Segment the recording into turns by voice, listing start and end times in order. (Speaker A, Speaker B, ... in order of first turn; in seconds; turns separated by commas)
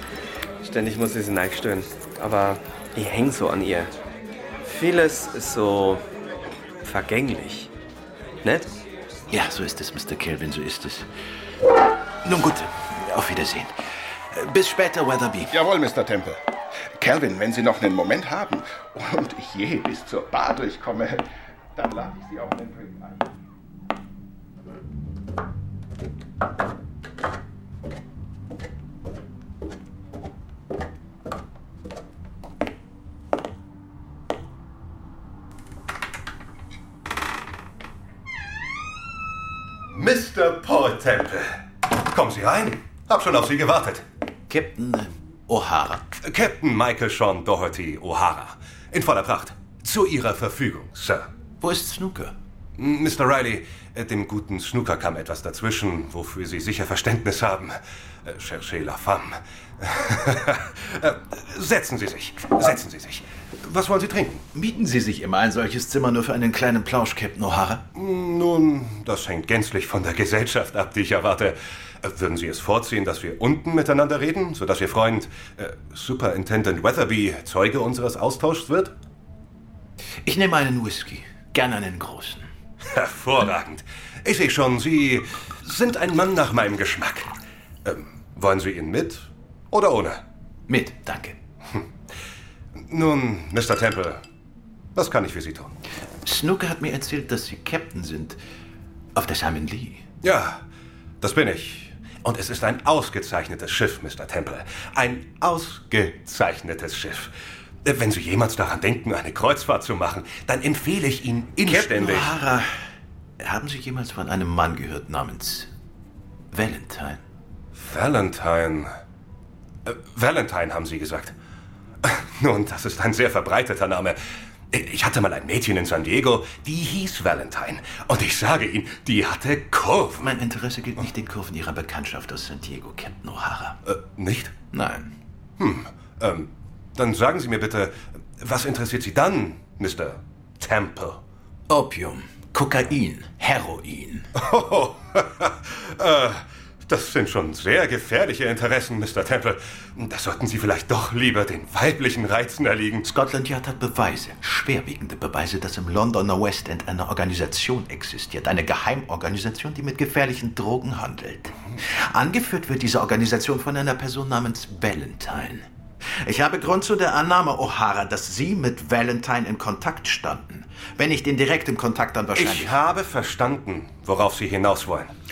Speaker A: 0.6-3.9, Speaker A: 4.6-6.0, Speaker A: 6.8-7.7, Speaker A: 8.4-8.7, Speaker B: 9.3-11.1, Speaker B: 12.2-13.8, Speaker B: 14.3-15.5, Speaker C: 15.5-16.4, Speaker C: 17.0-23.3, Speaker D: 39.9-44.0, Speaker B: 44.5-46.0, Speaker D: 46.2-51.3, Speaker B: 51.6-52.4, Speaker D: 52.8-64.4, Speaker B: 64.5-67.8, Speaker D: 68.0-78.9, Speaker B: 80.2-82.5, Speaker D: 82.9-87.3, Speaker D: 87.8-90.2, Speaker B: 90.7-91.4, Speaker D: 92.8-94.2, Speaker D: 95.0-95.8, Speaker B: 96.2-98.4, Speaker B: 99.2-100.1, Speaker D: 100.2-100.6, Speaker D: 101.2-107.3, Speaker D: 107.8-112.4, Speaker B: 111.6-112.7, Speaker B: 113.4-115.7, Speaker B: 116.5-117.2, Speaker D: 117.8-118.9, Speaker D: 119.9-121.3, Speaker D: 122.0-124.2, Speaker D: 124.7-130.4, Speaker B: 130.2-133.8, Speaker D: 133.9-134.6, Speaker B: 134.7-135.1, Speaker D: 135.6-141.2, Speaker B: 141.7-144.3, Speaker D: 144.3-153.1, Speaker B: 153.0-172.8, Speaker D: 172.4-175.1